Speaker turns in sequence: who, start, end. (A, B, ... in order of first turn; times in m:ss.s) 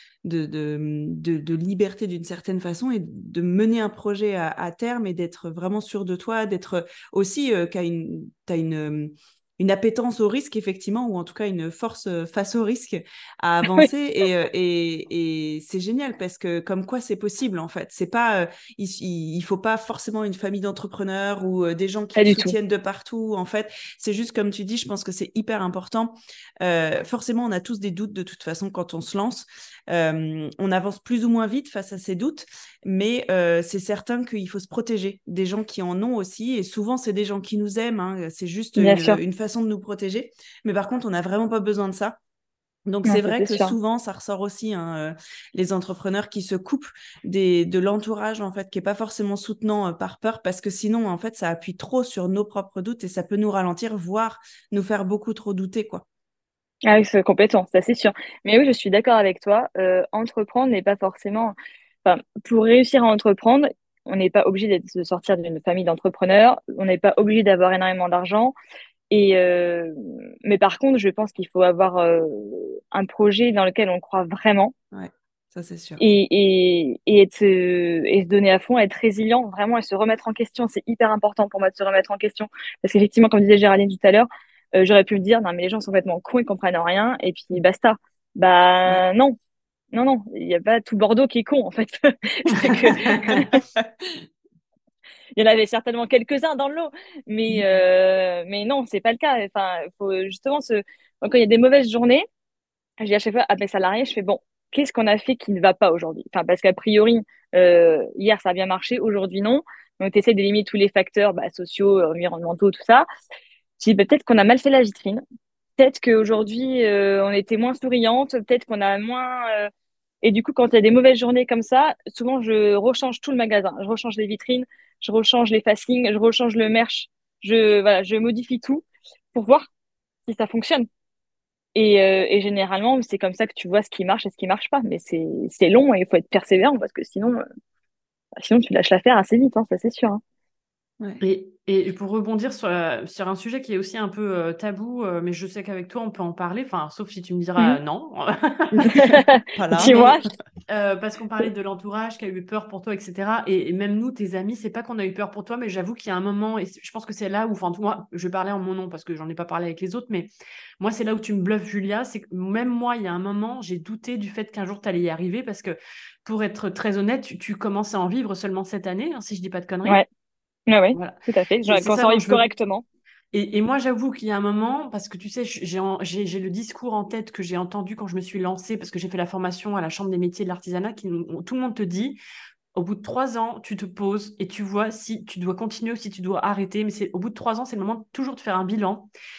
0:00.2-0:42.2 A
0:22.2-0:22.5 B
0:38.8-0:39.2 B
0:42.9-0:56.0 A
0:43.0-0:43.7 B
0:56.8-1:08.5 B
1:09.1-1:14.7 B
1:14.9-1:16.0 A
1:16.0-1:29.4 B
1:29.9-1:33.6 B
1:33.0-1:33.4 C
1:33.0-1:33.9 A
1:35.4-1:42.2 B
1:43.0-1:53.0 B
1:53.8-1:55.2 B
1:55.8-1:59.7 B
2:00.2-2:09.6 B
2:10.3-2:10.9 B
2:11.7-2:17.4 B
2:18.4-2:20.2 B
2:21.2-2:29.2 C
2:28.8-2:30.3 A
2:28.8-2:30.2 B
2:29.8-2:30.2 C
2:30.7-2:50.0 C
2:50.7-2:52.8 B
2:51.7-2:52.4 C
2:53.3-3:02.2 C
3:02.7-3:09.1 C